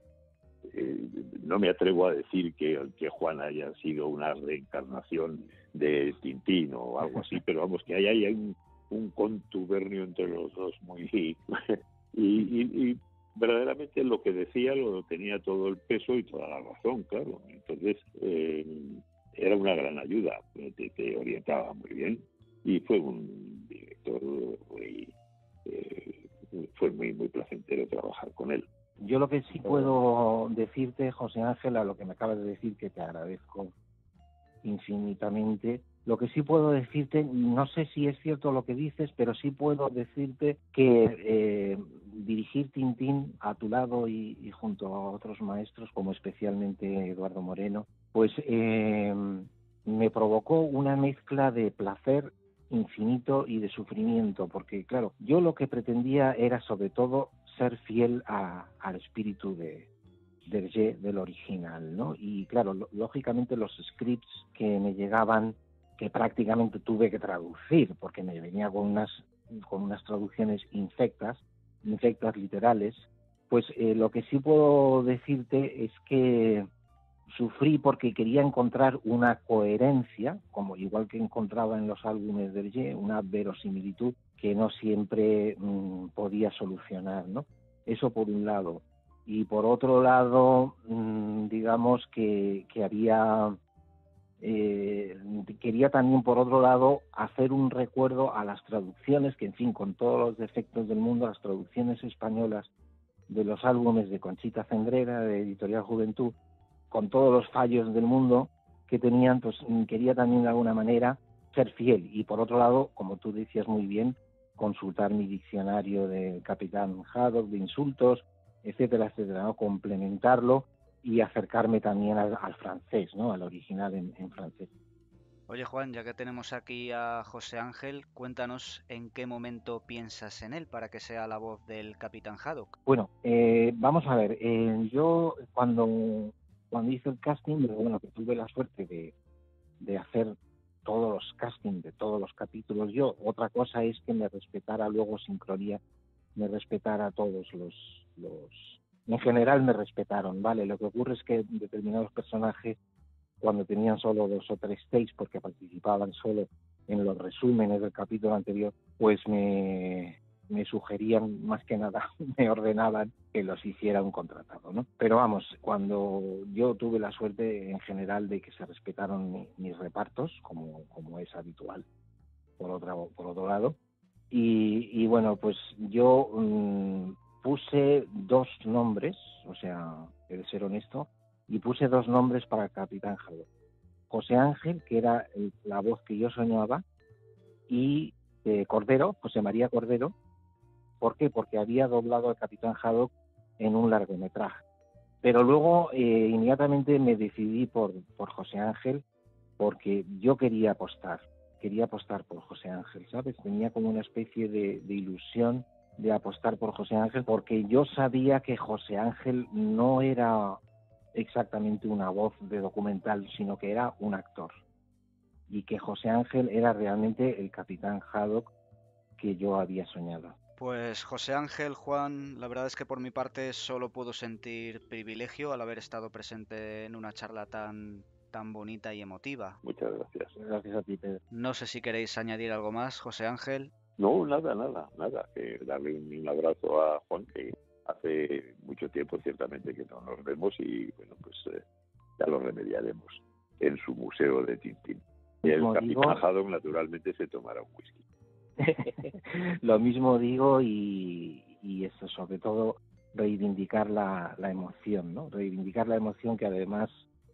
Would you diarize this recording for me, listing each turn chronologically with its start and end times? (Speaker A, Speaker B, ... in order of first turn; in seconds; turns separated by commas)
Speaker A: 0.6-25.1, Speaker A: 25.6-28.7, Speaker B: 29.0-33.7, Speaker A: 29.6-29.9, Speaker B: 34.6-59.9, Speaker B: 60.5-76.7, Speaker B: 77.3-93.6, Speaker B: 94.4-102.7, Speaker B: 103.3-106.3, Speaker B: 106.9-124.7, Speaker C: 125.5-132.7, Speaker B: 132.8-139.1, Speaker B: 139.8-145.8, Speaker B: 146.3-152.8, Speaker B: 153.4-171.8, Speaker B: 172.6-173.8, Speaker B: 174.3-183.5, Speaker B: 184.1-186.8, Speaker B: 187.7-190.1, Speaker B: 191.0-194.6, Speaker B: 195.2-199.0, Speaker B: 199.6-210.6, Speaker B: 211.1-214.5, Speaker B: 215.5-218.5, Speaker B: 219.2-220.3, Speaker C: 220.6-229.6, Speaker A: 229.6-230.3, Speaker B: 230.3-231.2, Speaker C: 231.3-233.7, Speaker A: 234.0-241.6, Speaker A: 242.2-248.0, Speaker B: 245.4-246.2, Speaker B: 248.6-257.0